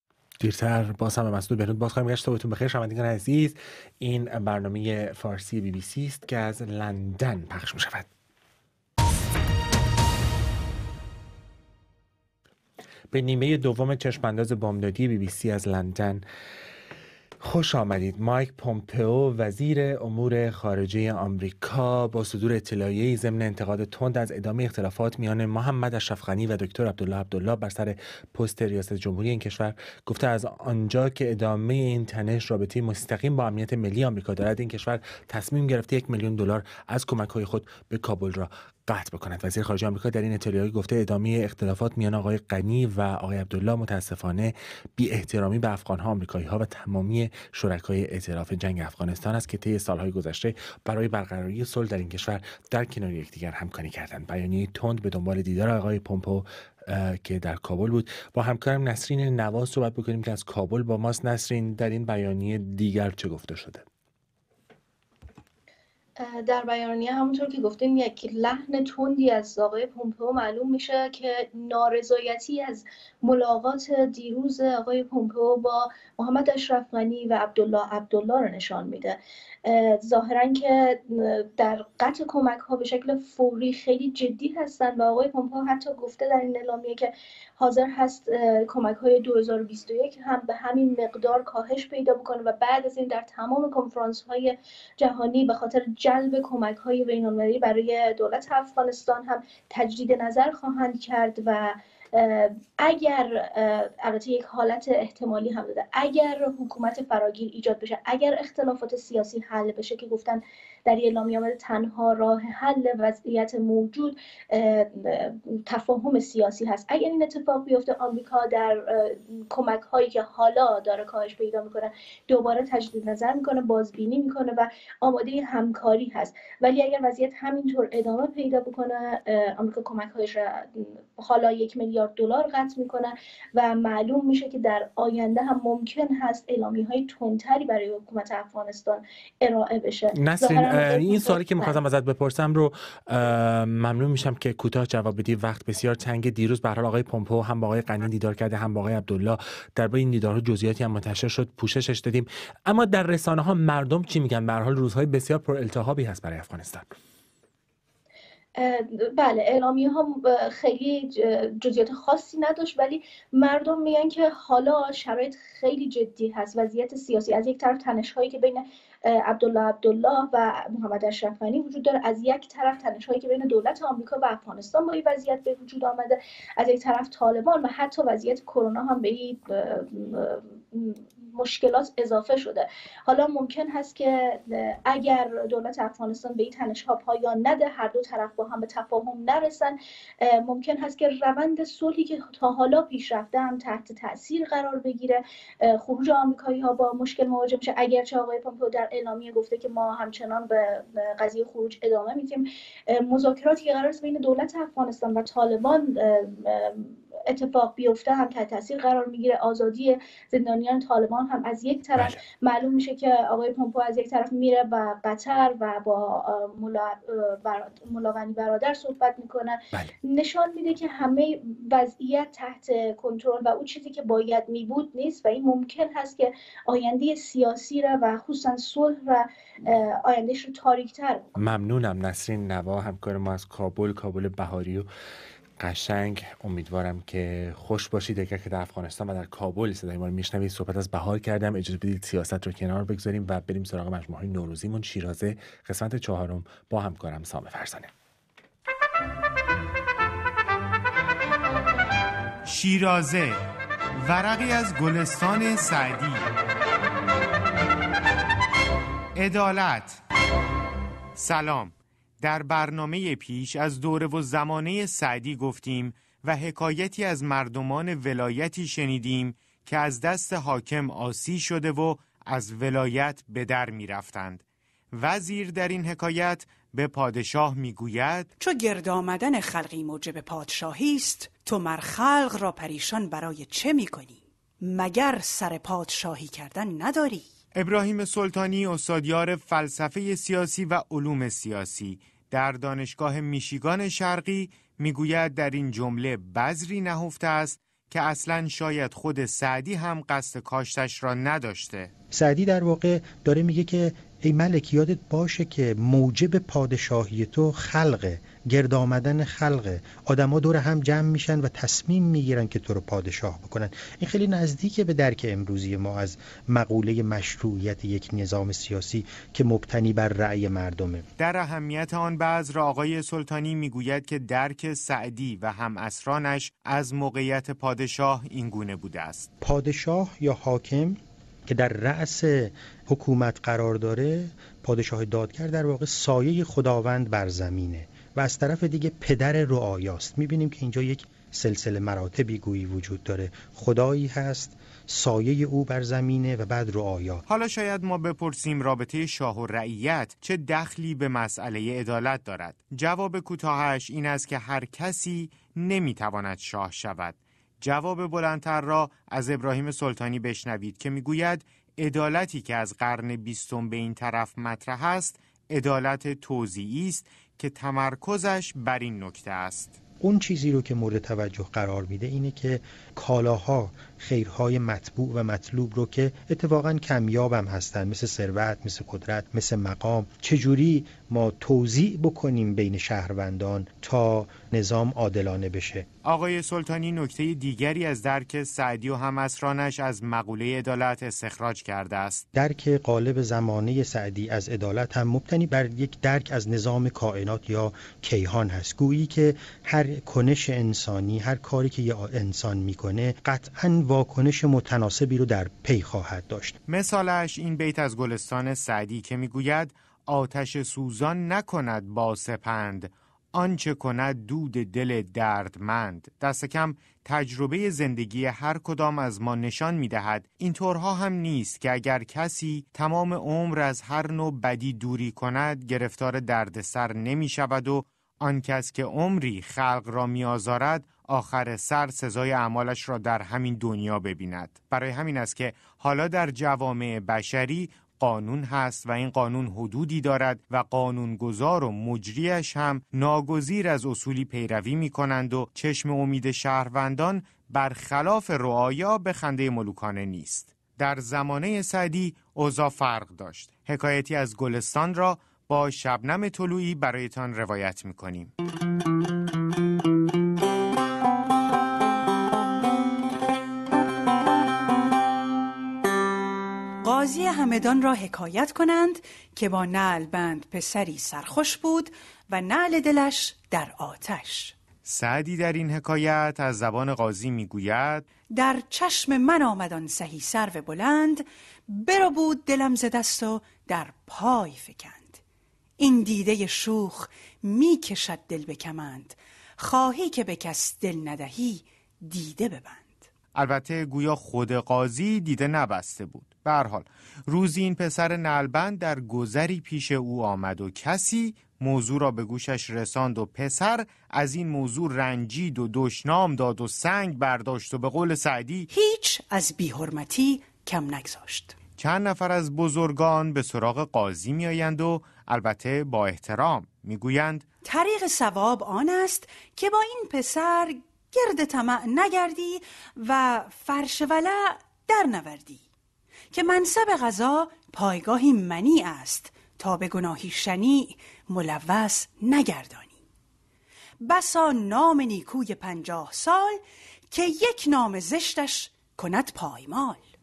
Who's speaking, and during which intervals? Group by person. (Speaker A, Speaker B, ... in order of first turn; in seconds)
Speaker A: 0.4-8.1, 13.1-16.2, 17.4-63.8, 140.1-156.9, 211.9-212.2, 231.3-234.9, 235.6-247.9
Speaker B: 66.2-141.8, 158.6-231.2
Speaker C: 252.4-253.4, 253.9-256.3, 259.1-260.0, 261.1-278.3, 287.5-301.9, 321.2-329.3, 347.3-369.8, 386.0-392.2, 406.7-458.3, 474.8-478.1, 493.3-508.7, 511.8-517.5
Speaker D: 278.4-287.3, 466.8-474.6, 478.3-485.2, 485.8-493.1, 508.7-511.6, 517.6-525.6, 526.3-533.0, 534.0-540.0
Speaker E: 302.1-321.0, 329.4-347.2, 370.0-385.9, 392.3-406.6